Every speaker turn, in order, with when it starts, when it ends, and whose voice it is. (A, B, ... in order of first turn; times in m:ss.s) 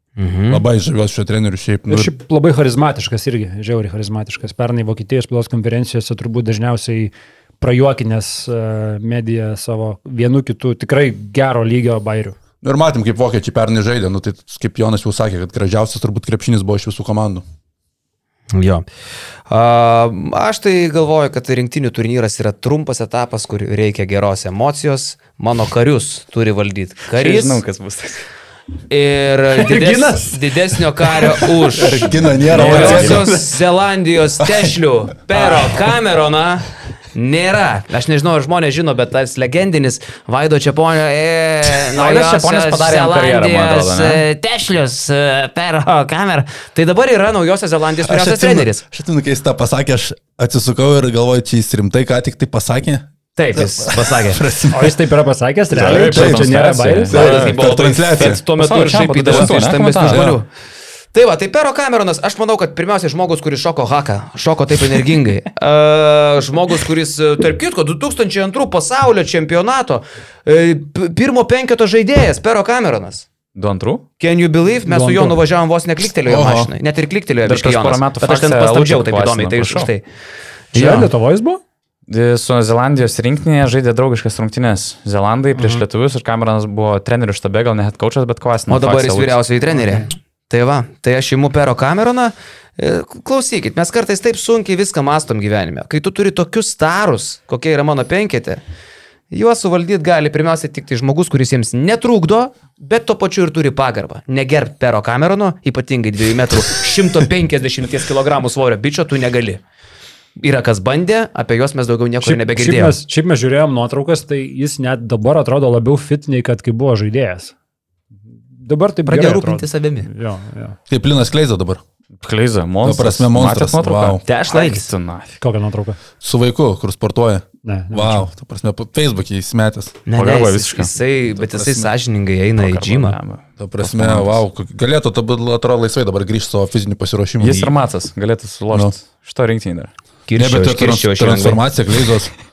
0:00.2-0:00.6 A
0:00.5-0:02.1 B
0:01.9-0:12.4 C
0:12.6-0:17.4 B
0:18.5-0:18.9 A
0:19.5-0:27.6 A
0:27.1-0:28.2 D
0:28.9-0:48.8 A
0:29.5-0:31.4 C
0:31.7-0:33.3 B
0:32.5-0:33.4 D
0:34.4-0:34.7 B
0:41.8-0:44.2 D
0:48.0-0:55.0 B
0:53.4-0:54.4 A
0:54.7-0:57.2 C
0:55.7-1:00.3 D
0:56.0-0:56.5 B
0:57.1-0:58.4 B
0:57.1-1:00.5 A
1:00.0-1:00.4 B
1:01.1-1:13.3 A
1:13.6-1:14.0 D
1:14.2-1:20.0 A
1:14.9-1:15.4 C
1:16.2-1:16.7 B
1:17.4-1:19.9 D
1:20.7-1:21.1 A
1:20.7-1:21.6 C
1:22.1-1:29.4 D
1:25.6-1:25.8 C
1:28.7-1:38.6 A
1:29.8-1:30.1 C
1:39.3-1:49.6 A
1:50.4-1:53.0 A
1:52.2-1:57.5 C
1:58.5-2:00.8 C
1:59.1-2:00.1 A
2:00.9-2:01.8 B
2:02.2-2:05.4 D
2:02.8-2:04.2 B
2:04.3-2:04.9 A
2:05.4-2:06.0 C
2:06.2-2:10.0 B
2:07.6-2:08.3 C
2:10.1-2:13.2 A
2:10.1-2:10.9 D
2:11.3-2:11.9 B
2:12.6-2:14.4 D
2:13.6-2:17.7 B
2:17.4-2:19.9 D
2:20.3-2:21.6 A
2:20.4-2:22.3 B